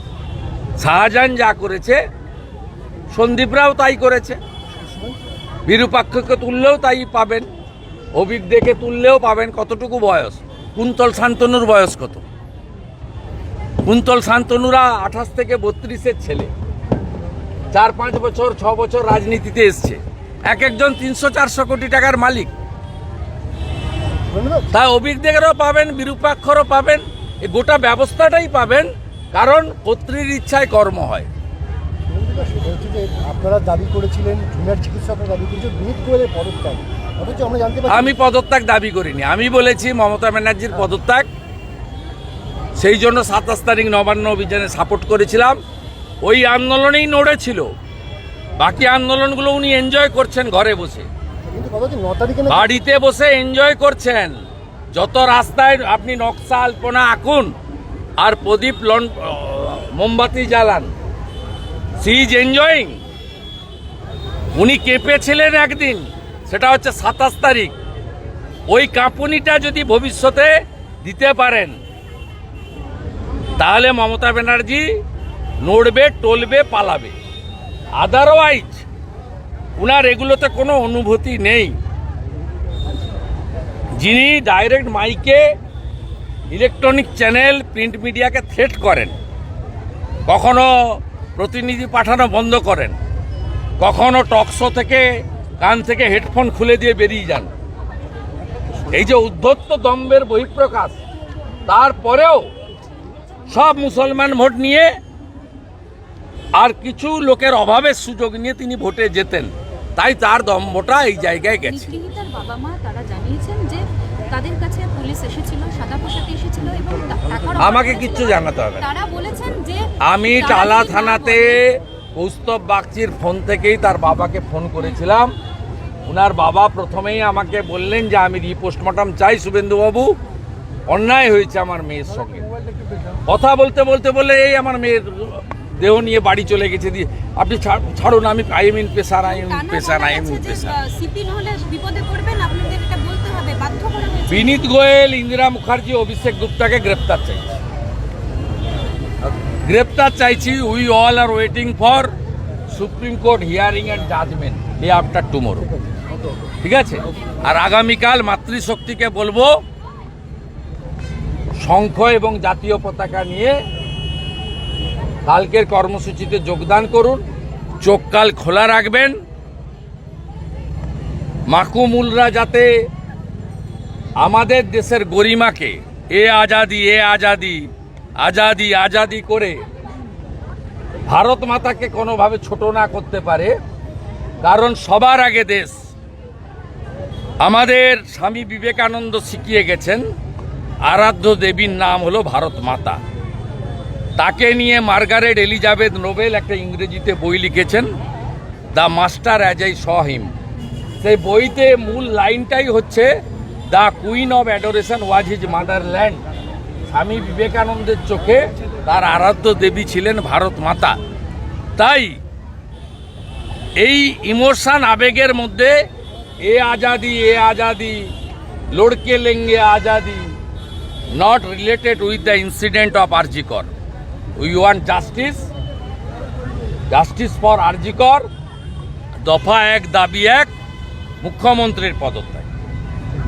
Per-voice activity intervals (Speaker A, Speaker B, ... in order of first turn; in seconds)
Speaker A: 0.8-2.0, 3.1-4.4, 5.7-7.5, 8.1-12.2, 13.8-16.5, 17.7-22.5, 24.7-31.3, 37.9-41.3, 42.8-45.6, 46.2-47.7, 48.6-51.1, 52.5-54.4, 54.9-57.5, 58.2-60.9, 62.0-63.0, 64.5-67.8, 68.7-71.8, 73.6-74.9, 75.6-77.1, 78.0-78.8, 79.8-81.7, 84.0-85.4, 86.5-89.2, 90.3-93.0, 93.8-95.1, 95.6-97.5, 98.9-101.0, 101.7-102.5, 103.5-104.9, 106.6-111.9, 117.6-118.9, 120.0-125.3, 126.1-130.2, 130.9-132.5, 133.3-140.8, 144.3-147.6, 149.4-152.1, 152.7-155.7, 156.6-159.5, 161.6-163.6, 165.2-167.2, 167.8-169.1, 171.5-172.7, 174.2-179.6, 181.1-183.5, 184.4-185.8, 187.4-190.0, 190.8-193.0, 194.2-197.9, 198.7-200.3, 201.0-203.1, 203.7-206.2, 206.9-210.9, 211.8-212.2, 213.8-215.8, 216.4-218.1, 218.7-220.3, 221.1-223.7, 224.3-225.5, 226.9-228.2, 229.2-230.5, 231.2-232.5
Speaker B: 24.3-24.7, 32.1-38.0, 51.5-52.6
Speaker C: 111.6-121.6, 139.2-144.7